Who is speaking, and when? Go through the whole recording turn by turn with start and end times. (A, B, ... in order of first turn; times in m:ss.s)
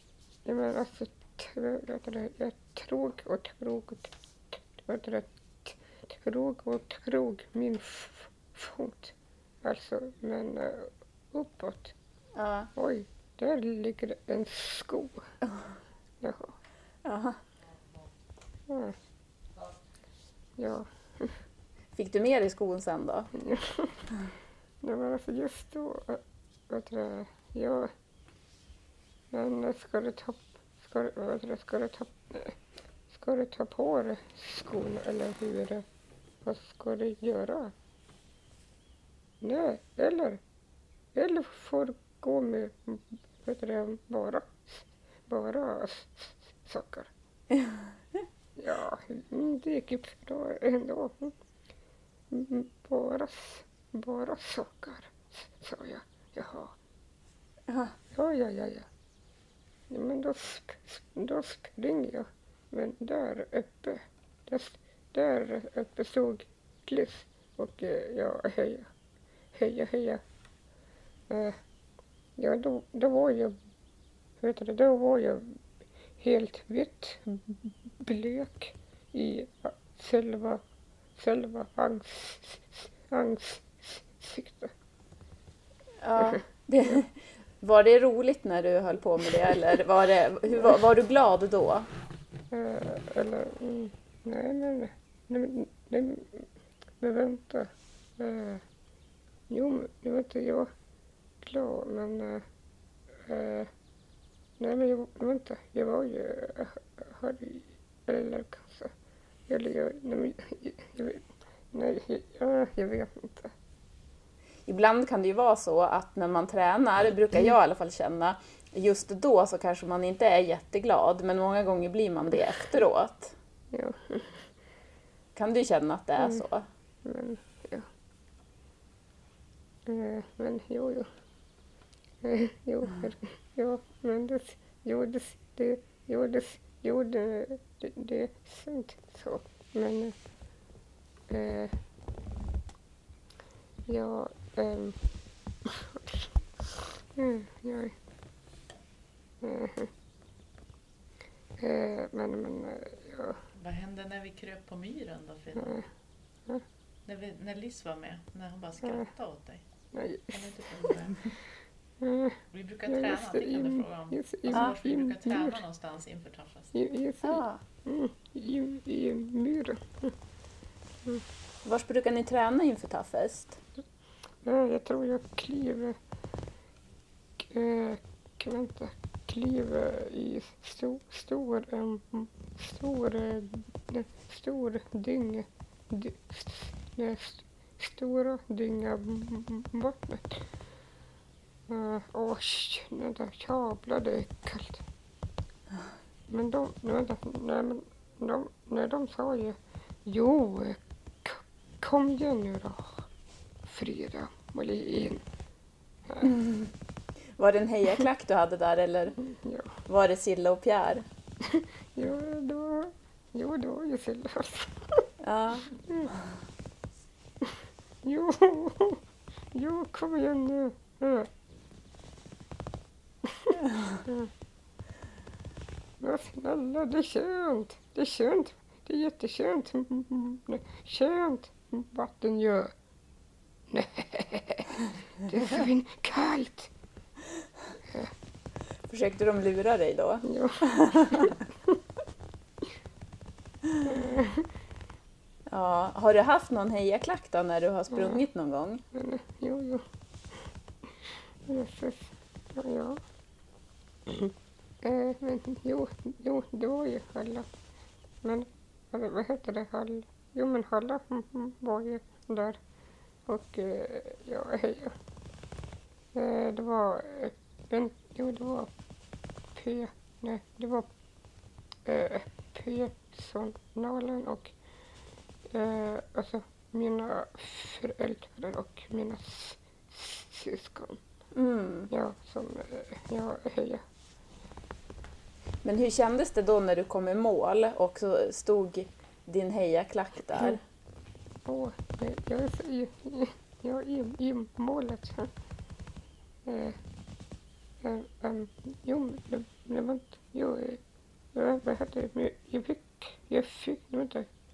0:00.4-0:11.9 A
0:12.4-0:12.7 B
0:12.8-0:15.2 A
0:16.2-0:16.5 A
0:17.0-0:17.4 B
0:18.7-0:18.9 A
0:20.6-0:21.3 A
0:21.9-0:23.3 B
0:23.4-0:24.0 A
0:24.8-0:27.9 A
0:29.3-0:32.5 A
0:33.1-0:35.8 A
0:36.4-0:37.7 A
0:39.4-0:40.4 A
0:41.1-0:47.1 A
0:48.6-0:51.3 A
0:52.3-0:56.7 A
0:57.7-0:57.9 B
0:58.1-0:58.8 A
0:59.9-1:08.9 A
1:09.5-1:10.2 A
1:11.3-1:11.6 A
1:12.4-1:13.6 A
1:14.4-1:15.5 A
1:16.2-1:20.6 A
1:21.2-1:24.7 A
1:26.0-1:31.9 B
1:32.5-1:36.4 A
1:37.0-1:38.6 A
1:39.5-1:40.7 A
1:41.4-1:42.4 A
1:43.2-1:43.7 A
1:44.6-1:48.9 A
1:49.5-1:53.5 A
1:54.7-2:03.3 B
2:03.7-2:04.4 A
2:05.3-2:06.6 B
2:06.2-2:06.4 A
2:07.0-2:07.9 A
2:09.8-2:11.1 A
2:12.2-2:20.1 A
2:21.3-2:21.7 A
2:23.9-2:25.0 A
2:25.6-2:26.2 A
2:27.1-2:27.9 A
2:29.4-2:29.9 A
2:31.6-2:33.4 A
2:33.6-2:35.8 C
2:35.5-2:35.8 A
2:37.0-2:39.6 C
2:39.9-2:40.5 A
2:40.3-2:41.3 C
2:42.0-2:45.6 A
2:42.5-2:46.7 C
2:46.7-2:50.1 A
2:47.2-2:47.6 B
2:51.6-2:53.6 B
2:54.4-2:56.0 A
2:57.4-3:10.4 A
3:11.7-3:14.8 A
3:16.3-3:23.1 A
3:23.6-3:25.2 A
3:26.2-3:26.7 B
3:27.4-3:29.2 B
3:29.2-3:29.7 A
3:29.9-3:31.0 B
3:31.4-3:35.0 A
3:35.2-3:35.7 B
3:37.4-3:39.0 A
3:39.5-3:41.3 A
3:43.2-3:44.3 A
3:46.0-3:52.7 A
3:53.7-3:56.7 A
3:58.9-4:01.4 B
4:00.2-4:01.4 A
4:03.8-4:04.5 A
4:05.5-4:08.8 B
4:07.9-4:08.2 A
4:08.9-4:09.8 A
4:11.5-4:13.0 A
4:14.1-4:17.5 A
4:18.2-4:22.6 A
4:23.3-4:24.9 A
4:26.1-4:28.7 A
4:29.5-4:30.9 A
4:31.8-4:34.5 A
4:35.5-4:41.0 A
4:41.3-4:41.9 B
4:41.9-4:43.8 A
4:45.6-4:50.6 B
4:51.4-4:55.3 A
4:56.4-4:56.8 A
4:57.8-5:00.8 A
5:01.3-5:04.3 A